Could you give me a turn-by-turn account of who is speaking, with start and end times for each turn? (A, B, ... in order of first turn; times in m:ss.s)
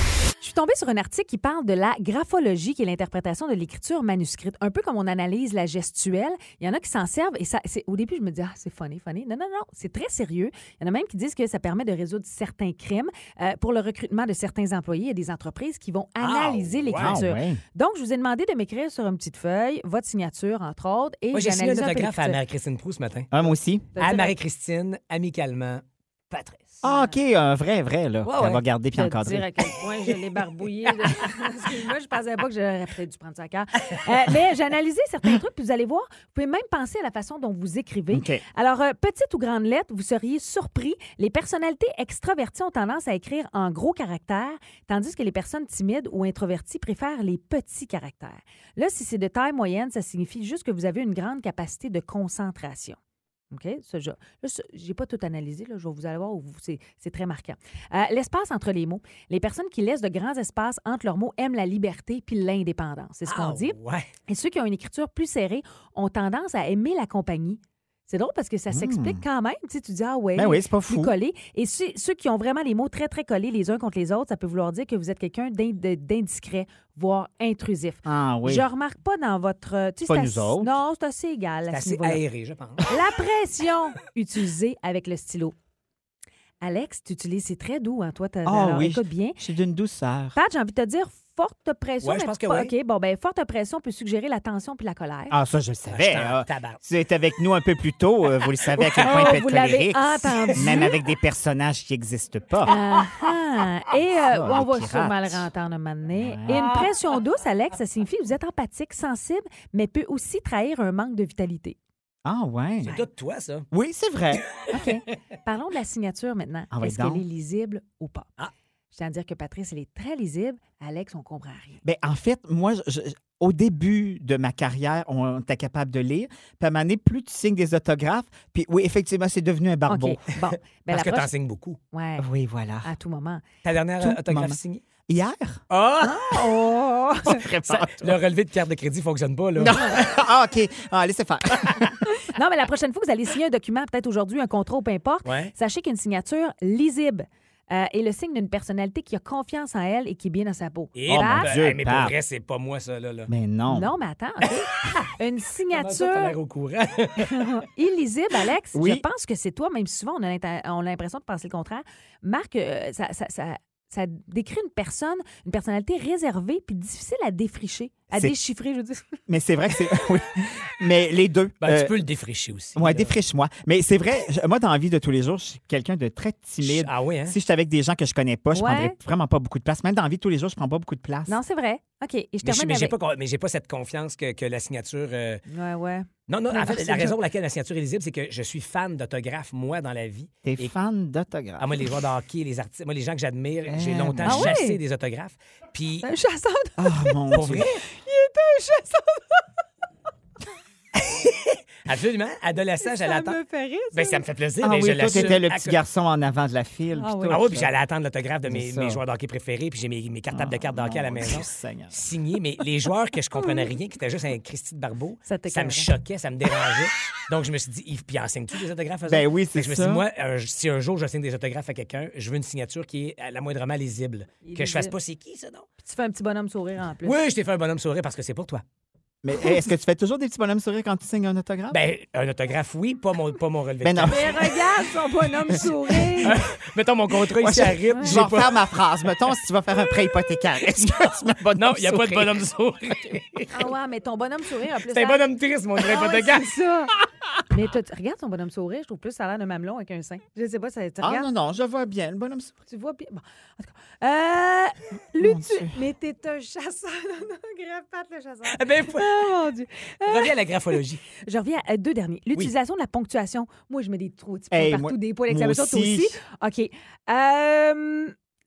0:00.4-0:22.4 A
0:16.2-0:17.2 B
0:17.0-0:17.6 C
0:21.3-0:23.3 B
0:23.3-0:23.9 C
0:24.0-0:24.3 A
0:24.0-0:26.8 B
0:26.8-0:29.6 C
0:26.8-0:27.2 A
0:28.2-0:28.6 B
0:29.0-0:53.0 A
0:30.1-0:30.4 B
0:38.1-0:38.4 C
0:53.5-1:03.8 A
1:03.3-1:04.1 B
1:04.3-1:22.2 A
1:08.7-1:09.2 C
1:10.4-1:11.1 C
1:18.0-1:18.6 C
1:20.1-1:20.7 C
1:21.7-1:22.9 B
1:22.9-1:25.6 A
1:26.6-1:29.4 A
1:28.4-1:30.4 C
1:30.4-1:35.4 A
1:32.0-1:32.7 B
1:35.3-1:42.8 C
1:35.9-1:36.8 B
1:38.8-1:39.4 B
1:38.8-1:41.0 A
1:40.5-1:40.9 B
1:42.7-1:51.8 A
1:44.2-1:45.5 C
1:46.2-1:46.7 C
1:46.5-1:47.0 B
1:52.2-1:53.0 C
1:52.8-1:53.7 B
1:53.7-1:54.9 C
1:54.3-1:54.8 B
1:54.7-1:58.3 A
1:56.7-1:57.2 C
1:58.9-2:01.8 A
2:01.8-2:10.2 C
2:09.9-2:11.3 A
2:10.6-2:11.8 B
2:11.9-2:12.3 A
2:12.2-2:12.9 C
2:12.8-2:13.4 A
2:13.6-2:14.8 B
2:14.0-2:14.6 C
2:15.1-2:15.6 C
2:15.7-2:16.5 B
2:16.0-2:17.4 A
2:17.2-2:18.2 C
2:17.7-2:20.1 B
2:19.6-2:21.9 C
2:22.3-2:31.5 A
2:25.2-2:25.5 B
2:31.0-2:33.3 B
2:31.1-2:32.2 C
2:33.3-2:33.9 C
2:33.7-2:36.4 A
2:34.8-2:35.1 B
2:35.7-2:37.6 B
2:37.2-2:49.2 A
2:38.7-2:39.0 C
2:49.3-2:52.0 C
2:51.6-2:53.2 B
2:52.8-3:01.4 C
2:56.6-2:57.4 B
2:58.5-2:59.0 A
3:01.3-3:03.0 A
3:02.4-3:05.4 B
3:05.5-3:07.2 A
3:06.3-3:10.7 B
3:10.4-3:11.8 C
3:11.6-3:16.1 B
3:13.7-3:14.6 C
3:14.2-3:14.8 A
3:16.0-3:17.2 A
3:16.8-3:17.8 C
3:17.3-3:17.8 B
3:17.9-3:19.4 A
3:21.0-3:23.4 B
3:22.8-3:24.2 A
3:23.9-3:25.8 B
3:24.6-3:27.7 C
3:27.0-3:27.4 A
3:27.3-3:45.7 B
3:28.5-3:29.0 C
3:30.3-3:32.0 C
3:35.2-3:35.9 A
3:39.1-3:40.1 C
3:44.4-3:45.0 A
3:45.8-3:47.2 A
3:47.0-3:48.6 B
3:49.2-3:51.8 C
3:51.7-3:54.4 B
3:53.8-3:54.5 C
3:54.0-3:56.4 A
3:55.5-3:56.5 C
3:56.2-3:58.7 B
3:57.3-4:02.4 C
4:01.6-4:03.7 B
4:03.5-4:05.2 A
4:04.9-4:06.6 B
4:05.8-4:06.9 A
4:07.5-4:11.3 A
4:11.0-4:12.6 C
4:12.7-4:20.4 A
4:15.2-4:15.8 C
4:18.5-4:19.4 B
4:20.1-4:21.0 B
4:21.2-4:28.2 A
4:24.5-4:26.2 C